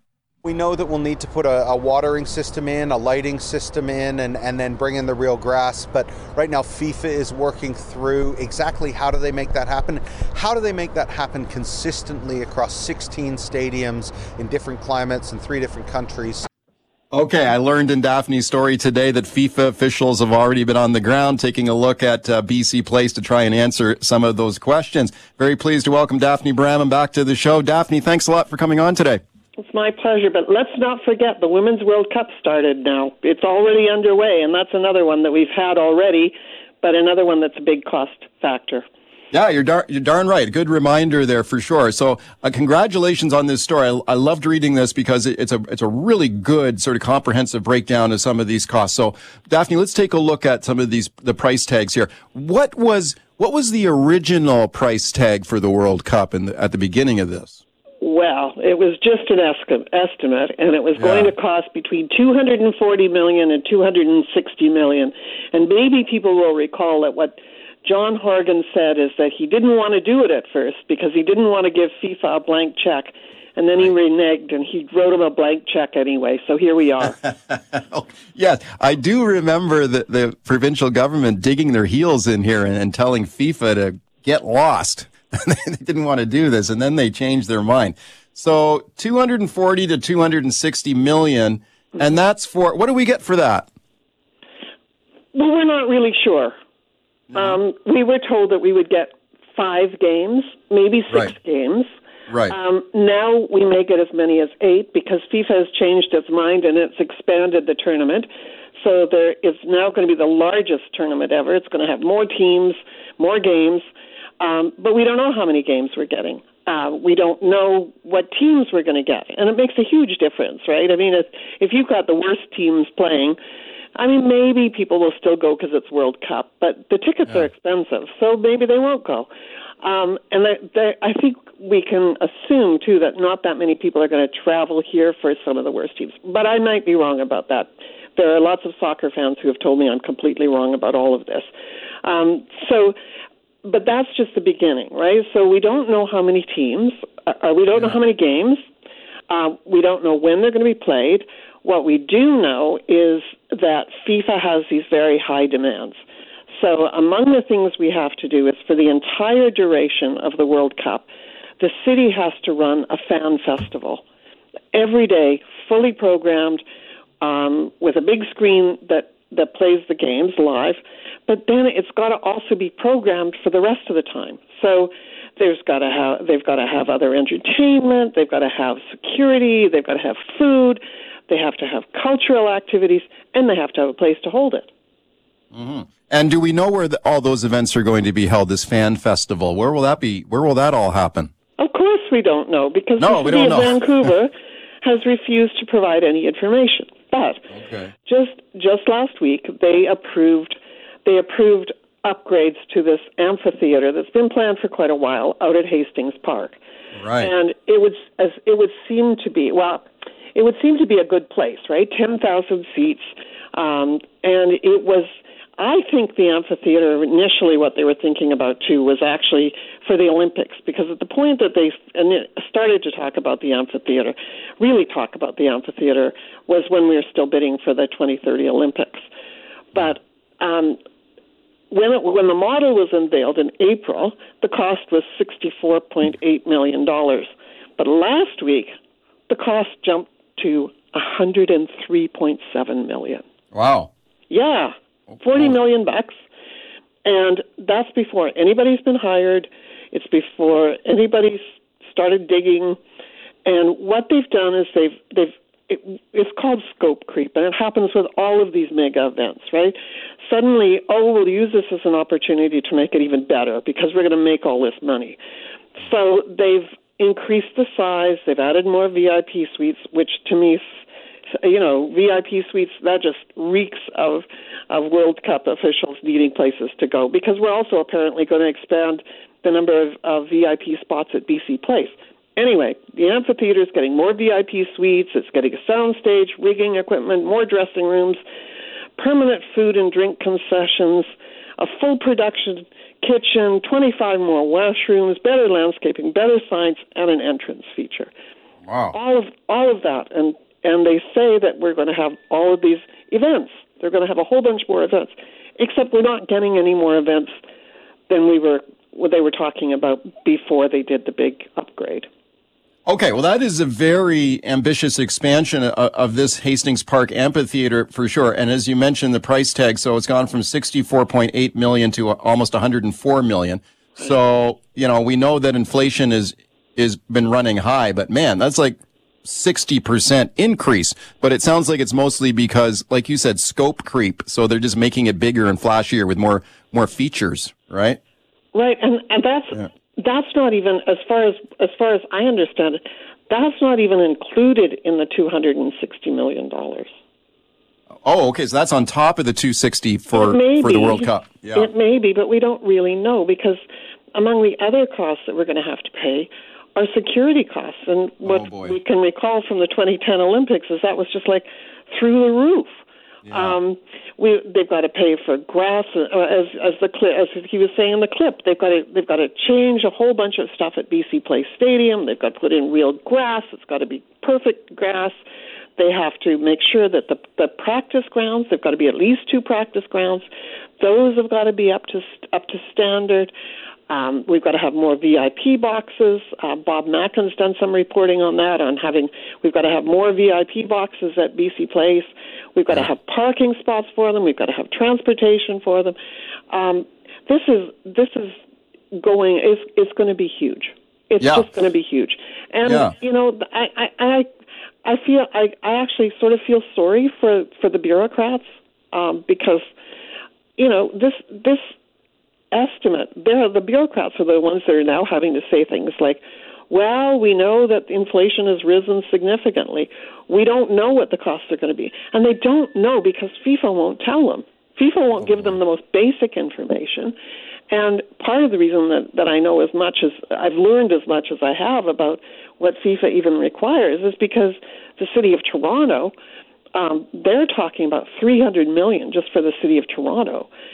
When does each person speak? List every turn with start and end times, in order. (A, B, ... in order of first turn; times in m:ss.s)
0:00.4-0:16.5 A
0:17.1-0:29.2 B
0:29.6-0:38.9 C
0:39.3-0:57.6 B
0:58.0-1:17.2 C
1:01.0-1:01.3 B
1:17.2-1:33.7 B
1:35.3-1:36.6 C
1:37.3-1:37.6 B
1:37.4-1:41.9 C
1:42.3-1:42.6 B
1:42.5-1:53.9 C
1:54.4-2:03.4 C
2:04.0-2:09.3 C
2:09.8-2:21.5 C
2:22.0-2:23.0 C
2:23.6-2:28.6 C
2:29.3-2:36.0 C
2:36.6-2:41.1 C
2:41.6-2:44.0 C
2:44.7-2:46.6 C
2:47.2-3:04.7 C
3:05.5-3:11.3 B
3:11.6-3:17.4 C
3:13.0-3:14.1 B
3:17.5-3:17.9 B
3:18.1-3:26.6 C
3:27.0-3:27.3 B
3:27.2-3:49.1 C
3:49.8-3:50.8 C
3:51.7-3:58.7 C
3:59.3-4:03.2 C
4:03.5-4:03.9 B
4:04.3-4:06.2 C
4:07.0-4:12.8 C
4:13.5-4:25.2 C
4:25.8-4:30.6 C
4:31.4-4:48.2 C
4:49.0-4:58.1 C
4:58.7-4:59.0 B
4:58.9-5:07.4 C
5:08.1-5:12.1 C
5:12.9-5:38.0 B
5:38.5-5:46.9 C
5:48.0-5:51.7 B
5:50.1-5:53.6 C
5:54.1-6:15.2 C
5:58.3-5:58.8 B
6:03.2-6:03.6 B
6:15.8-6:20.3 C
6:20.8-6:23.3 C
6:23.9-6:36.0 C
6:36.5-6:38.4 C
6:38.9-6:44.3 C
6:41.2-6:41.5 B
6:42.6-6:42.9 B
6:44.8-6:49.7 C
6:50.6-6:51.6 C
6:52.5-7:07.2 C
7:07.7-7:16.1 C
7:16.7-7:20.5 C